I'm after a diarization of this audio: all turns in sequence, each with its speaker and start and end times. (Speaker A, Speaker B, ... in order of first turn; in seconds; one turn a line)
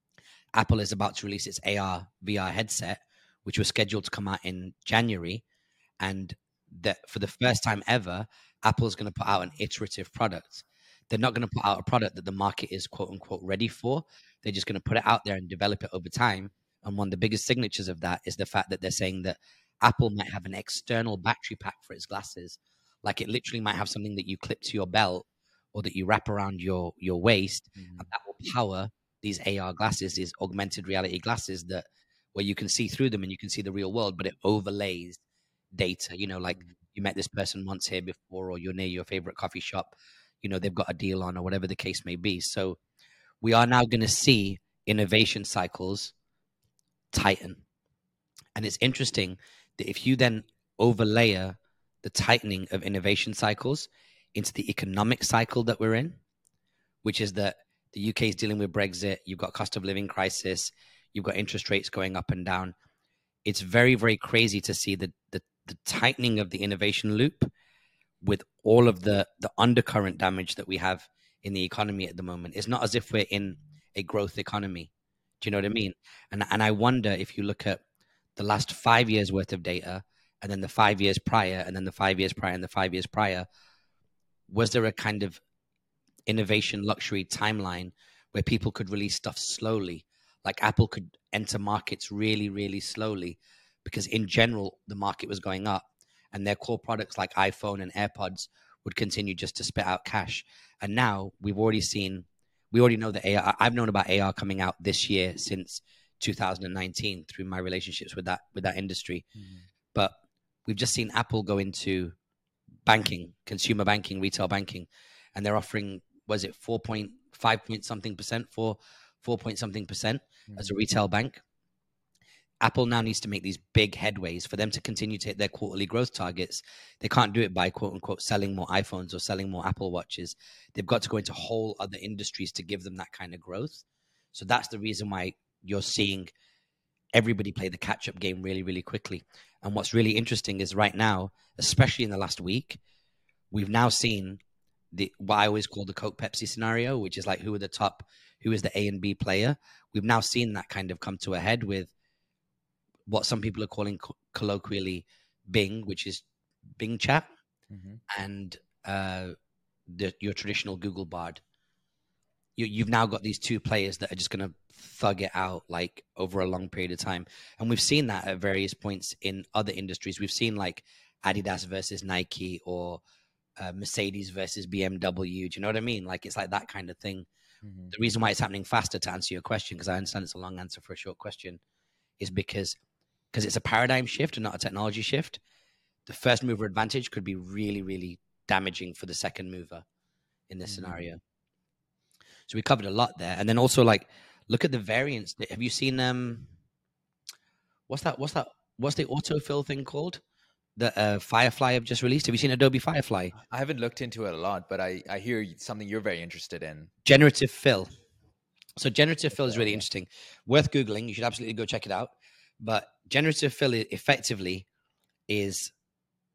Speaker A: 0.5-5.4
Speaker A: 6.0-35.2
Speaker B: 27.8-28.1
Speaker A: 35.7-42.8
Speaker A: 43.4-46.1
Speaker A: 47.1-47.6
Speaker A: 48.5-56.2
Speaker A: 57.0-62.7
Speaker A: 63.4-67.5
Speaker A: 68.2-74.9
Speaker A: 75.4-77.8
Speaker A: 78.3-83.5
Speaker A: 84.5-85.4
Speaker A: 86.3-109.2
Speaker B: 109.3-109.6
Speaker A: 110.7-112.1
Speaker A: 112.8-121.4
Speaker B: 120.5-120.8
Speaker A: 122.6-136.3
Speaker A: 137.1-142.8
Speaker A: 143.5-144.4
Speaker A: 144.9-151.9
Speaker A: 153.1-156.2
Speaker A: 156.8-157.3
Speaker B: 157.7-158.0
Speaker A: 158.1-159.3
Speaker A: 159.9-161.4
Speaker A: 162.6-173.0
Speaker A: 173.6-177.3
Speaker B: 177.6-177.9
Speaker A: 177.9-181.6
Speaker A: 182.2-182.8
Speaker A: 183.3-185.4
Speaker A: 186.1-189.8
Speaker A: 190.5-191.2
Speaker B: 190.7-191.0
Speaker A: 192.5-196.5
Speaker A: 197.9-200.2
Speaker A: 200.8-203.3
Speaker B: 203.4-206.9
Speaker A: 207.0-207.9
Speaker A: 208.8-214.7
Speaker B: 209.4-209.8
Speaker A: 215.3-215.7